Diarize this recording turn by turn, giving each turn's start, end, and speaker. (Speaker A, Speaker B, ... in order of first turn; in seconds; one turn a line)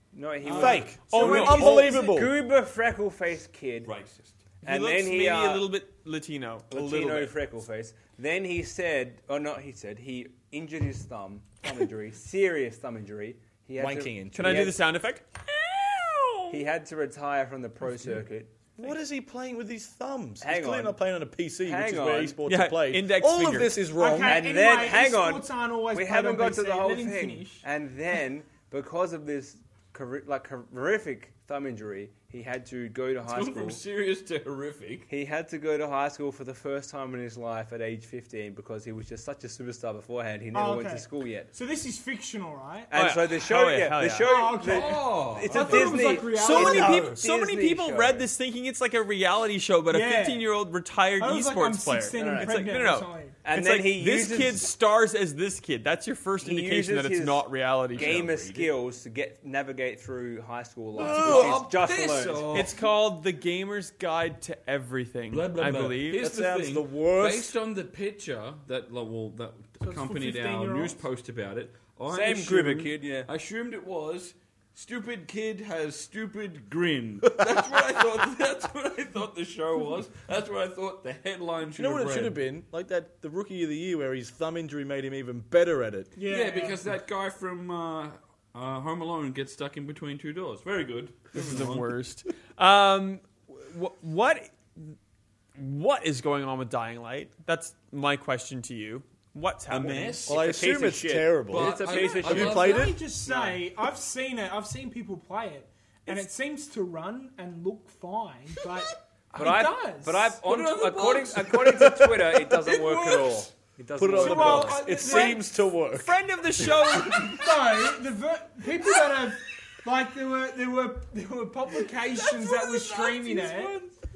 Speaker A: 0.1-3.9
Speaker B: 0.4-0.9
Speaker C: 0.5-2.4
Speaker D: 1.1-2.0
Speaker B: 3.9-4.4
Speaker D: 4.6-7.3
Speaker A: 4.6-5.7
Speaker A: 6.7-14.8
Speaker C: 13.8-14.7
Speaker D: 14.3-16.6
Speaker A: 16.5-18.6
Speaker C: 18.8-24.5
Speaker A: 20.4-21.0
Speaker A: 21.6-22.4
Speaker D: 22.5-23.9
Speaker E: 23.9-27.6
Speaker A: 24.2-33.8
Speaker B: 33.3-35.1
Speaker A: 35.1-41.5
Speaker E: 40.5-42.9
Speaker A: 42.9-48.3
Speaker D: 42.9-44.4
Speaker E: 44.2-47.2
Speaker B: 44.6-46.2
Speaker D: 45.7-58.3
Speaker E: 49.9-50.5
Speaker E: 51.2-53.4
Speaker A: 52.1-52.6
Speaker A: 53.4-54.7
Speaker A: 56.4-62.7
Speaker B: 57.9-58.7
Speaker C: 61.0-61.7
Speaker B: 61.0-62.8
Speaker D: 62.5-66.3
Speaker B: 65.3-82.4
Speaker C: 66.1-67.6
Speaker E: 69.8-71.0
Speaker A: 72.1-73.3
Speaker C: 81.8-86.1
Speaker E: 86.2-86.8
Speaker B: 86.3-91.9
Speaker D: 91.3-95.0
Speaker D: 95.6-100.3
Speaker B: 99.7-100.4
Speaker C: 100.3-103.0
Speaker A: 100.3-102.8
Speaker B: 101.5-103.6
Speaker E: 101.8-110.4
Speaker A: 109.3-115.0
Speaker B: 110.4-112.0
Speaker C: 111.8-112.4
Speaker B: 112.6-113.5
Speaker C: 114.0-116.9
Speaker E: 114.1-115.5
Speaker D: 115.0-115.4
Speaker D: 115.9-117.6
Speaker E: 117.1-123.8
Speaker C: 122.3-123.9
Speaker B: 123.1-123.5